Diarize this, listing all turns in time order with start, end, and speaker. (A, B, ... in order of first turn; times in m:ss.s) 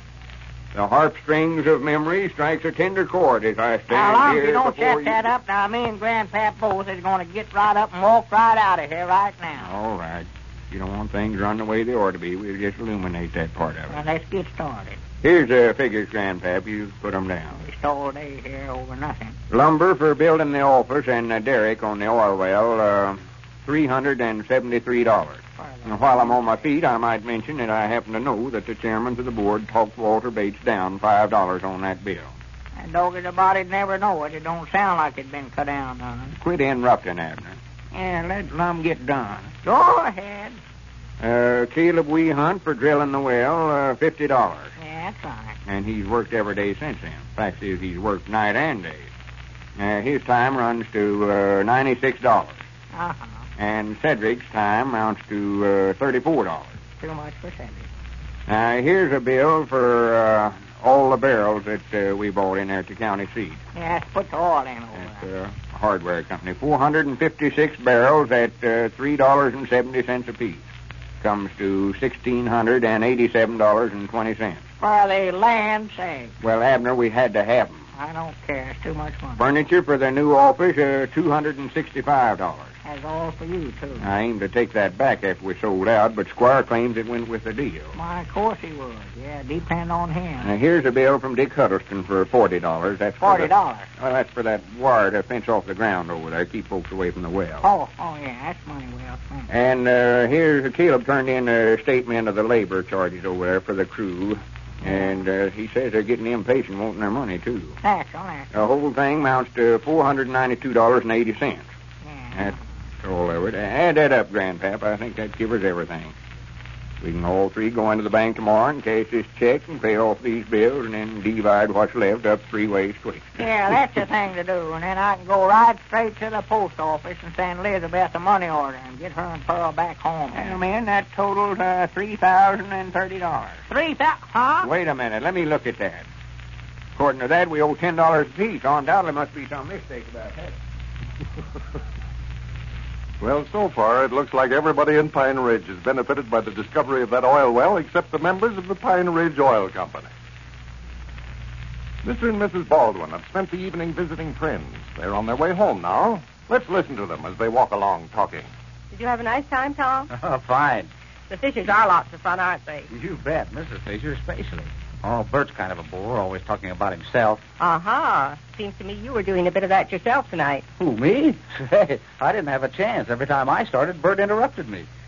0:00.7-0:05.3 A
0:03.9-0:09.7 B
0:09.6-0:14.0 A
0:13.9-0:15.0 B
0:15.2-0:17.6 A
0:17.6-0:19.4 B
0:19.5-0:32.3 A
0:25.6-0:26.7 B
0:32.8-0:36.4 B
0:36.4-0:39.5 A
0:39.6-0:40.6 B
0:41.2-0:44.7 A
0:44.8-0:45.6 B
0:45.7-0:49.1 A
0:49.8-0:52.6 A
0:52.9-0:53.4 B
0:53.6-0:56.8 A
0:57.0-0:57.9 B
0:58.5-1:03.6 A
1:03.8-1:05.2 B
1:05.0-1:10.6 A
1:11.2-1:14.6 A
1:14.8-1:16.3 B
1:16.4-1:17.8 A
1:18.0-1:19.4 B
1:19.4-1:22.7 A
1:22.8-1:24.1 B
1:24.0-1:28.0 A
1:28.0-1:30.5 B
1:30.4-1:37.6 A
1:33.2-1:33.9 B
1:37.6-1:39.5 B
1:39.5-1:47.8 A
1:44.8-1:45.2 B
1:47.8-1:48.5 B
1:48.5-1:51.7 A
1:52.0-1:52.6 B
1:52.4-1:56.2 A
1:57.0-2:03.4 A
2:03.4-2:10.6 B
2:10.3-2:13.6 A
2:13.7-2:14.7 B
2:14.6-2:16.1 A
2:17.0-2:20.6 A
2:23.2-2:30.1 C
2:32.0-2:38.5 C
2:38.9-2:40.1 D
2:40.1-2:40.9 E
2:41.3-2:42.9 D
2:42.9-2:47.4 E
2:47.6-2:50.6 D
2:50.8-2:54.9 E